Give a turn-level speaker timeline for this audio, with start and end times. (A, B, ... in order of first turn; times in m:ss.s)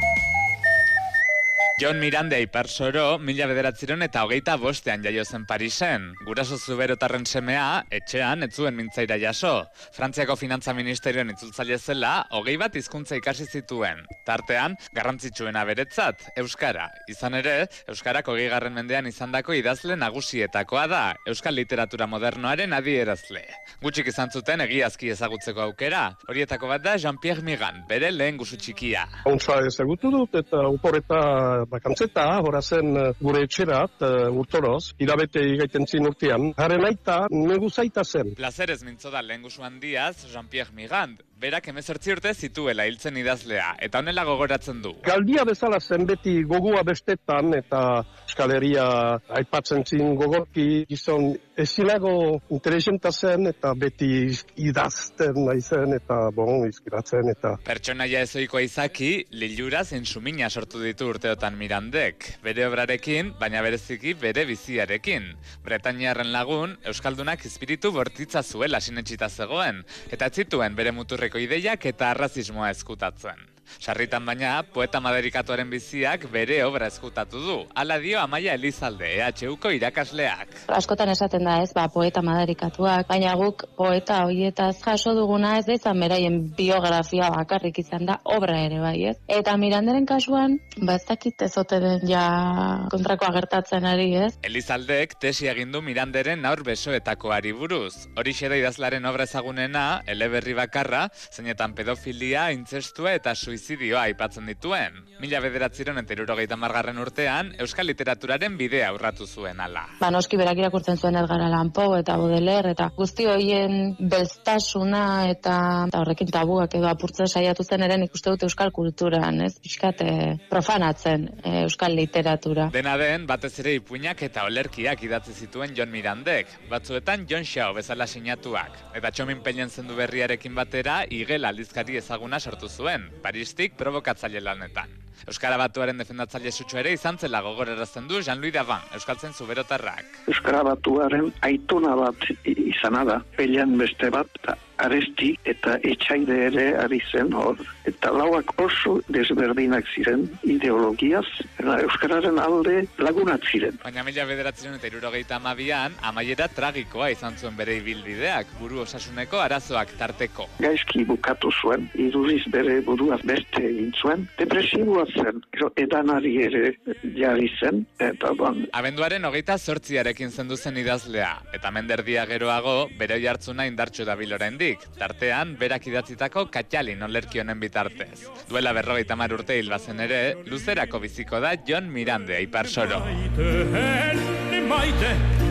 0:01.8-0:29.1 A
0:29.2-0:38.3 B
0:38.4-0:45.0 A
0:45.0-0:57.6 B
0:57.6-1:20.6 A
1:20.7-1:34.3 C
1:34.4-1:49.9 A
1:50.0-2:02.7 C
2:02.7-2:20.2 A
2:20.3-2:33.8 D
2:33.8-2:40.5 A
2:40.6-2:48.7 D
2:48.7-3:03.2 A
3:03.1-3:05.2 E